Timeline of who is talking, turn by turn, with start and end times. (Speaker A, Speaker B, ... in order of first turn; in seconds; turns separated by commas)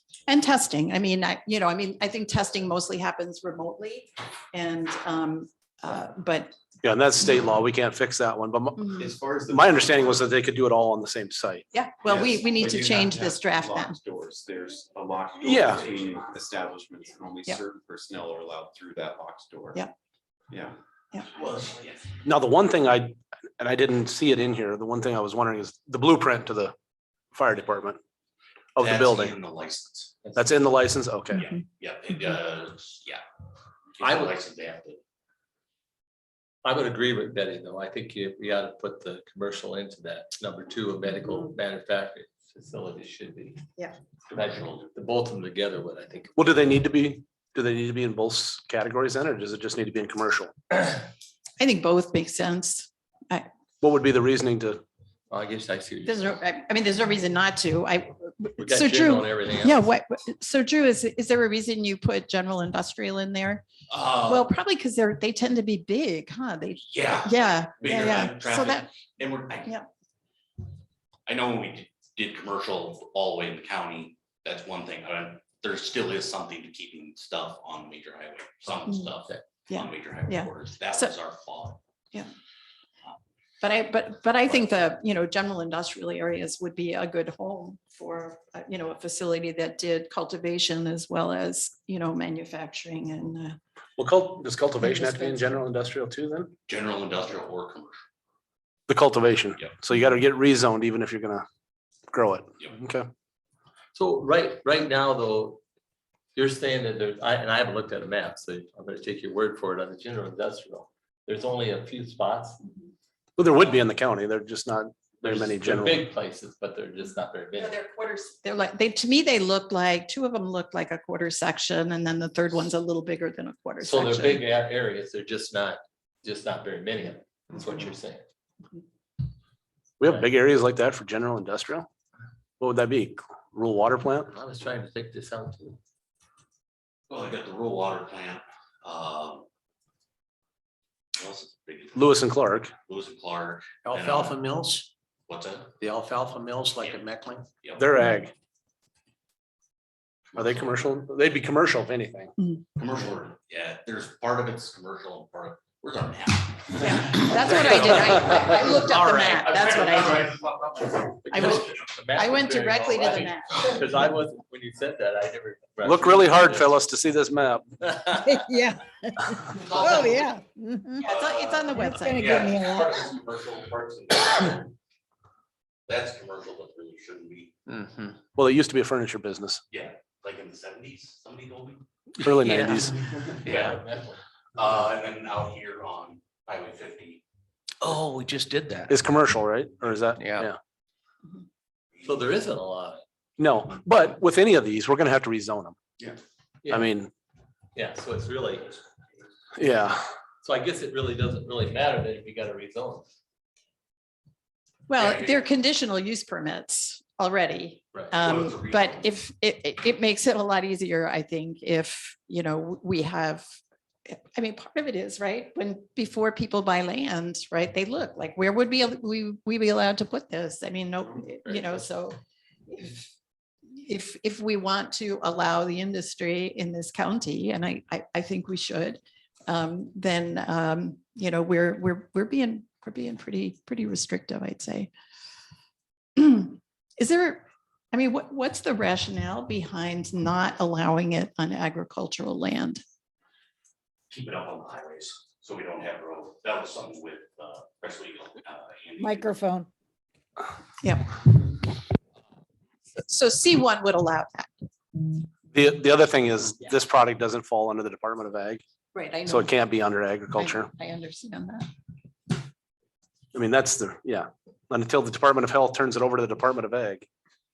Speaker A: 0.3-6.5, Speaker B: 6.8-11.6, Speaker A: 8.8-9.0, Speaker C: 9.0-10.2, Speaker A: 11.7-13.9, Speaker C: 12.0-19.8, Speaker B: 15.4-15.9, Speaker C: 20.5-20.8, Speaker D: 21.3-22.1, Speaker B: 22.2-26.7, Speaker B: 27.3-28.0, Speaker B: 28.8-29.3, Speaker D: 28.8-30.2, Speaker B: 30.4-31.5, Speaker D: 31.3-33.2, Speaker D: 34.0-35.0, Speaker E: 34.0-34.3, Speaker E: 36.6-43.6, Speaker D: 44.3-44.9, Speaker E: 44.3-46.4, Speaker B: 46.4-50.5, Speaker A: 51.6-53.4, Speaker B: 53.8-54.8, Speaker E: 55.3-56.2, Speaker A: 56.0-63.6, Speaker E: 58.6-59.8, Speaker D: 63.9-64.5, Speaker A: 64.2-68.9, Speaker D: 66.8-69.7, Speaker D: 71.3-81.8, Speaker A: 79.7-81.2, Speaker A: 83.6-93.6, Speaker B: 94.0-96.5, Speaker A: 94.8-95.5, Speaker D: 96.7-98.0, Speaker B: 98.9-101.5, Speaker B: 102.1-103.1, Speaker E: 103.9-105.6, Speaker E: 106.3-112.6, Speaker B: 113.4-116.1, Speaker E: 115.2-117.8, Speaker A: 117.5-124.4, Speaker E: 123.8-128.2, Speaker B: 130.0-131.9, Speaker B: 132.6-134.3, Speaker E: 134.3-135.8, Speaker D: 137.1-139.4, Speaker D: 141.2-144.4, Speaker B: 141.9-142.7, Speaker F: 143.8-144.9, Speaker D: 145.3-145.7, Speaker F: 145.8-147.5, Speaker B: 147.8-148.3, Speaker D: 150.3-150.8, Speaker B: 150.4-152.3, Speaker D: 152.8-161.0, Speaker A: 156.8-160.4, Speaker E: 161.1-166.7, Speaker A: 161.3-161.6, Speaker A: 162.1-163.8, Speaker B: 165.8-167.7, Speaker E: 167.8-168.4, Speaker G: 168.2-171.0, Speaker D: 169.4-170.5, Speaker D: 171.0-174.7, Speaker A: 171.0-172.2, Speaker G: 171.7-173.0, Speaker D: 175.9-177.5, Speaker F: 177.7-178.2, Speaker B: 178.3-179.6, Speaker D: 179.7-181.8, Speaker B: 182.2-183.1, Speaker E: 182.4-184.2, Speaker D: 183.3-183.8, Speaker F: 183.4-183.8, Speaker D: 184.5-187.2, Speaker F: 187.8-188.9, Speaker B: 188.9-190.6, Speaker F: 190.2-190.5, Speaker E: 192.0-193.0, Speaker B: 193.4-195.8, Speaker E: 196.6-196.9, Speaker B: 196.7-197.1, Speaker E: 197.7-198.8, Speaker B: 199.6-200.0, Speaker E: 200.4-203.1, Speaker A: 204.9-222.2, Speaker D: 205.0-205.3, Speaker D: 208.1-209.2, Speaker E: 221.4-221.8, Speaker A: 222.7-223.1, Speaker A: 223.7-234.9, Speaker A: 236.2-242.8, Speaker D: 244.1-249.4, Speaker G: 249.0-249.7, Speaker A: 250.8-251.6, Speaker A: 252.9-254.5, Speaker B: 255.5-258.6, Speaker A: 258.9-259.5, Speaker B: 259.2-260.7, Speaker A: 260.3-261.6, Speaker B: 263.3-267.1